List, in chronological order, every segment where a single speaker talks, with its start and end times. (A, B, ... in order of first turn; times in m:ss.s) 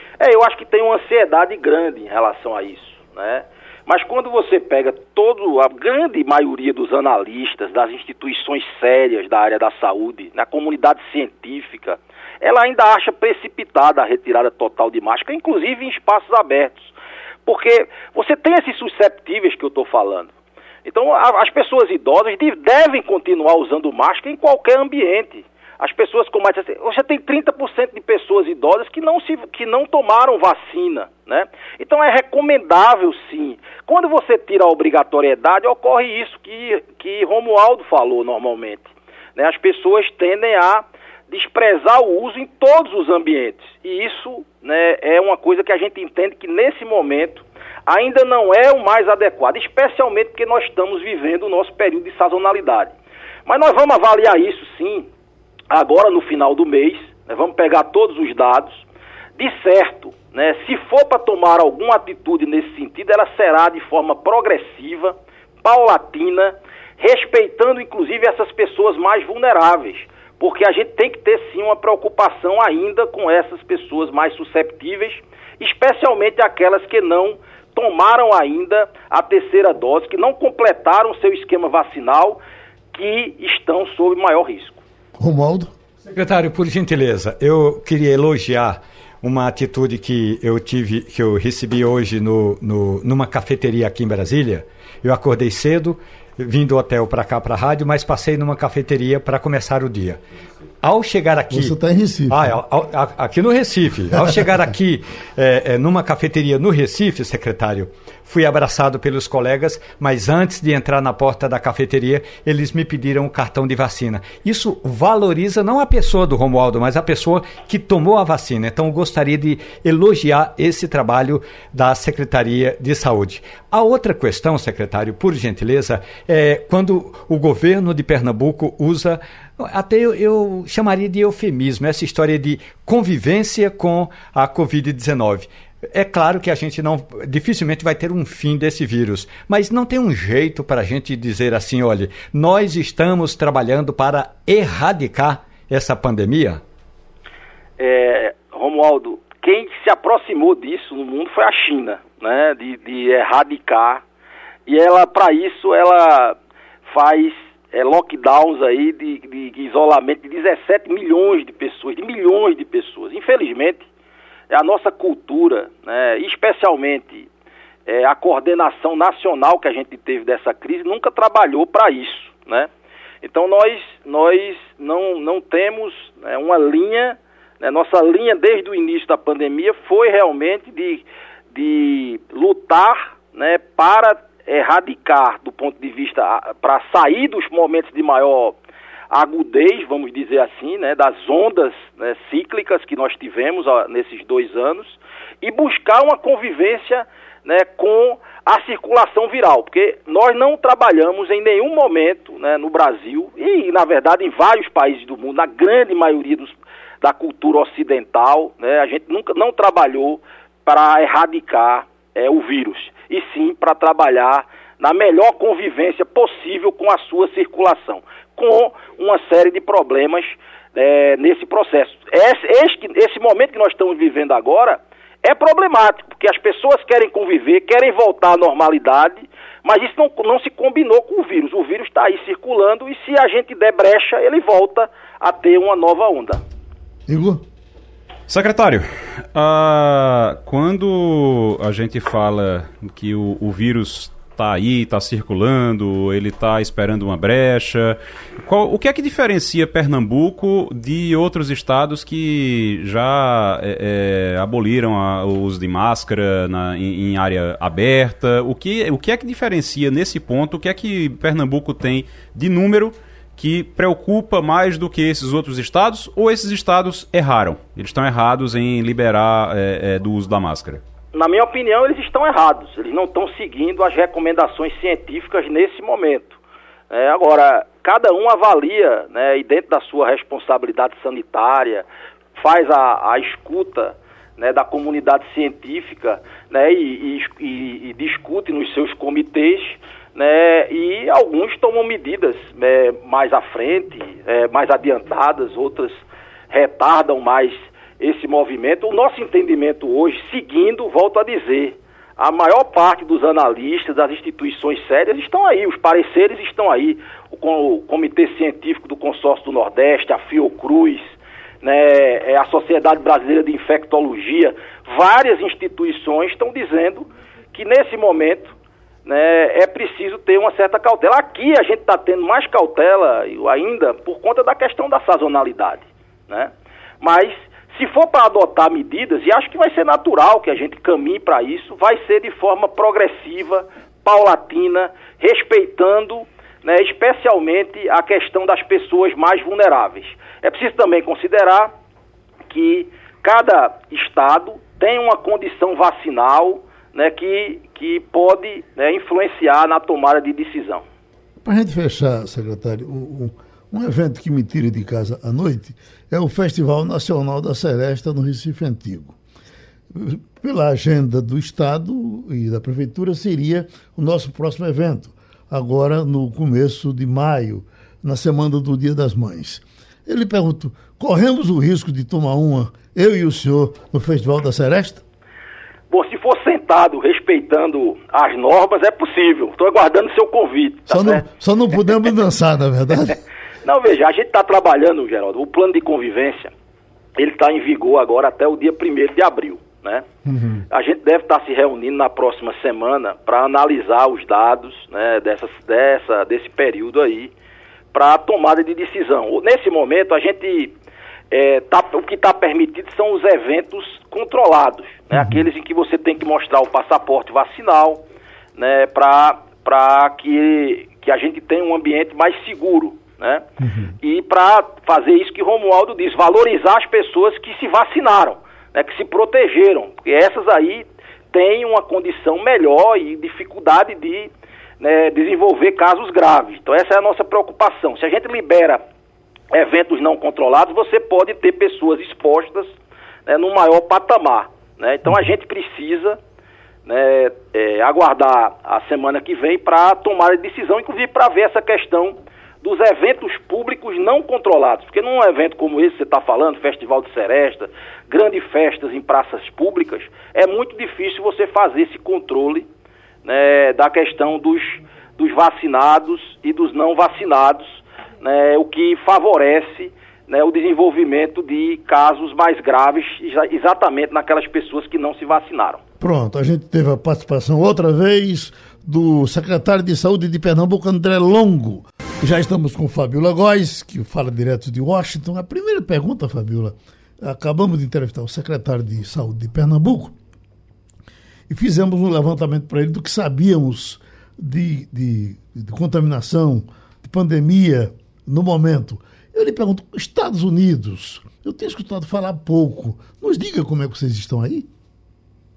0:00.2-0:16.9 A
0:17.4-0:20.3 A
0:20.8-0:52.9 A
0:53.4-0:55.1 A
0:55.7-0:58.8 A
0:59.4-1:22.4 A
1:22.9-1:24.8 A
1:25.2-1:25.7 B
1:26.1-1:40.2 C
1:40.8-1:41.7 C
1:41.5-1:42.5 B
1:42.3-2:26.6 C
2:27.8-2:34.0 A
2:34.6-2:43.8 A
2:44.5-2:47.3 A
2:47.8-2:52.7 A
2:53.2-3:08.6 A
3:09.1-3:56.4 A
3:57.1-3:57.4 B
3:58.3-4:30.8 D
4:31.1-4:36.4 A
4:36.9-5:18.5 A
5:19.0-5:41.7 A
5:42.5-5:50.8 A
5:51.4-5:59.1 B
5:59.9-6:15.0 B
6:15.9-6:21.2 A
6:20.9-6:23.2 B
6:23.6-6:26.5 A
6:27.2-6:30.0 A
6:30.2-6:30.6 B
6:30.7-6:37.3 A
6:37.9-6:40.7 A
6:41.3-6:48.0 A
6:45.1-6:45.4 B
6:48.6-6:53.4 A
6:53.6-6:53.9 B
6:54.0-7:08.8 A
7:09.5-7:12.7 A
7:13.2-7:16.2 A
7:16.8-7:32.7 A
7:33.2-7:45.8 A
7:46.0-8:00.1 B
8:01.5-8:14.7 B